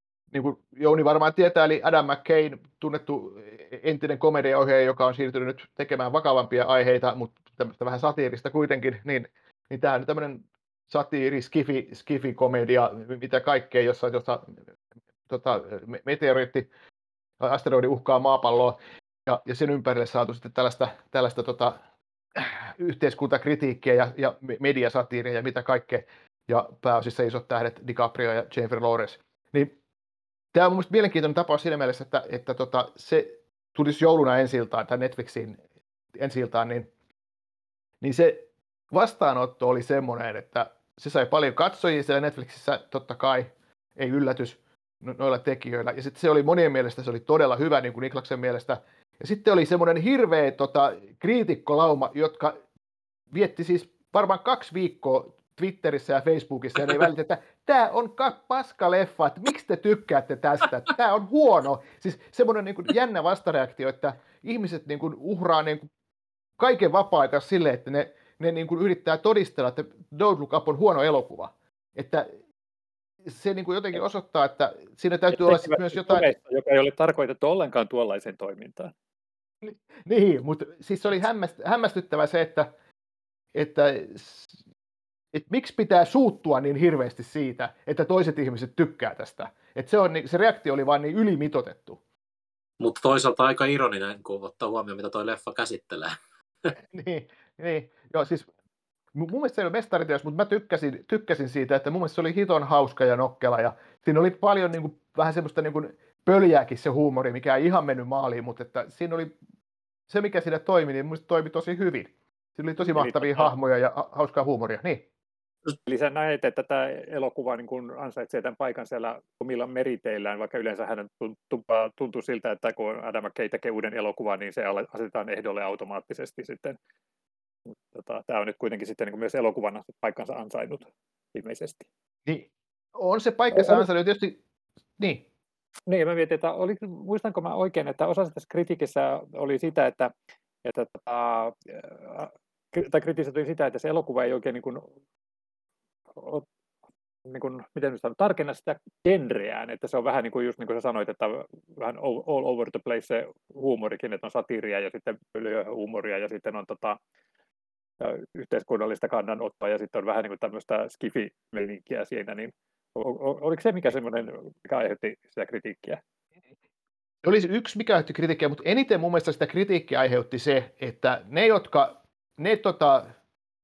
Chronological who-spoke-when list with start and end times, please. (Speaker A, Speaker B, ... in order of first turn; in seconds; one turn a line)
Speaker A: 0.3-14.6
Speaker A: 15.3-16.7
Speaker A: 17.4-21.8
Speaker A: 22.3-29.8
Speaker A: 30.5-35.6
Speaker A: 36.1-36.9
Speaker A: 38.0-52.6
Speaker A: 53.3-65.9
Speaker A: 66.6-72.3
Speaker A: 73.2-76.3
Speaker B: 75.3-78.9
Speaker A: 79.6-82.7
Speaker A: 83.5-84.5
Speaker A: 85.3-92.0
Speaker C: 92.8-96.1
Speaker A: 96.8-98.5
Speaker A: 99.1-109.3
Speaker A: 110.1-115.0
Speaker B: 112.9-113.5
Speaker B: 115.8-126.8
Speaker B: 127.9-131.8
Speaker A: 132.2-134.4
Speaker B: 133.5-133.8
Speaker A: 135.0-135.2
Speaker B: 135.9-140.1
Speaker B: 140.6-144.9
Speaker B: 146.2-146.5
Speaker B: 147.3-157.0
Speaker B: 158.0-166.0
Speaker A: 167.2-173.1